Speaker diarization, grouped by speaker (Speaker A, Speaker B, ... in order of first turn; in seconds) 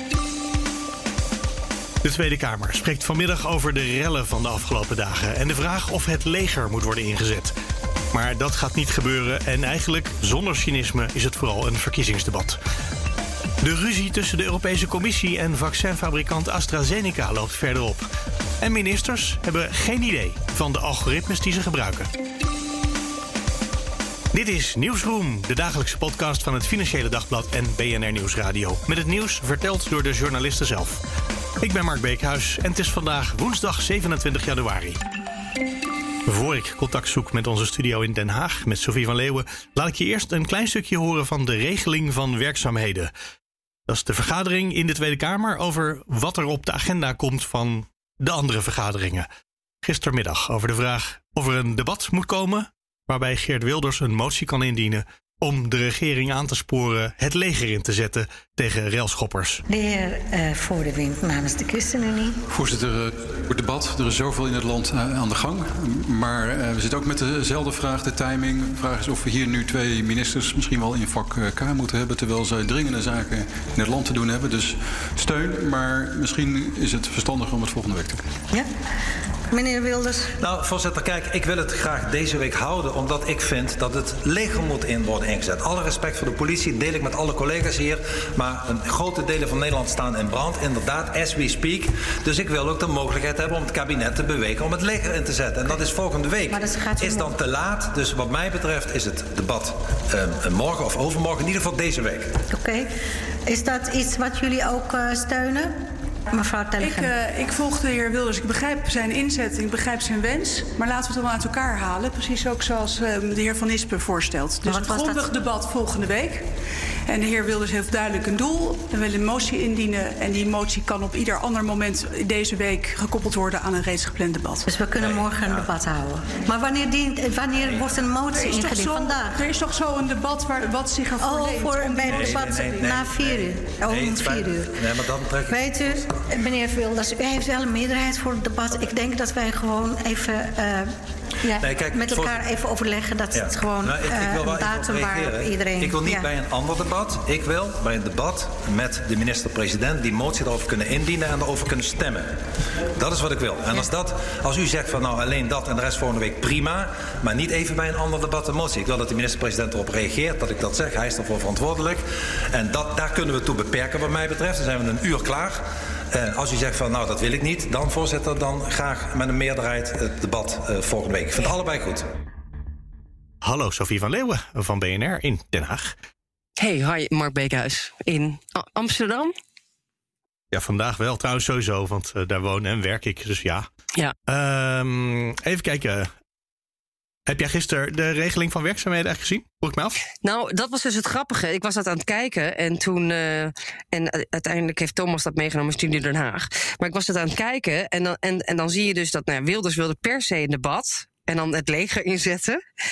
Speaker A: 2.0-7.5, 8.1-12.6, 13.6-18.1, 18.6-22.1, 24.3-31.0, 31.6-35.0, 36.2-43.1, 43.9-49.3, 49.8-59.6, 173.4-175.9, 180.5-183.7, 184.3-186.1, 187.3-190.0
Speaker B: 59.7-62.4, 79.5-80.3, 96.5-97.3, 102.5-102.9, 103.5-105.7, 106.3-107.1, 114.6-115.3, 124.7-129.3, 131.2-134.7, 135.5-146.3
Speaker C: 62.5-78.2
Speaker D: 80.4-102.4, 125.0-125.7, 127.6-128.0, 132.1-136.2, 141.6-142.4, 143.3-152.3, 152.9-172.1
Speaker E: 106.8-116.5, 117.1-124.7, 128.3-132.9
Speaker F: 176.6-179.3, 190.2-202.6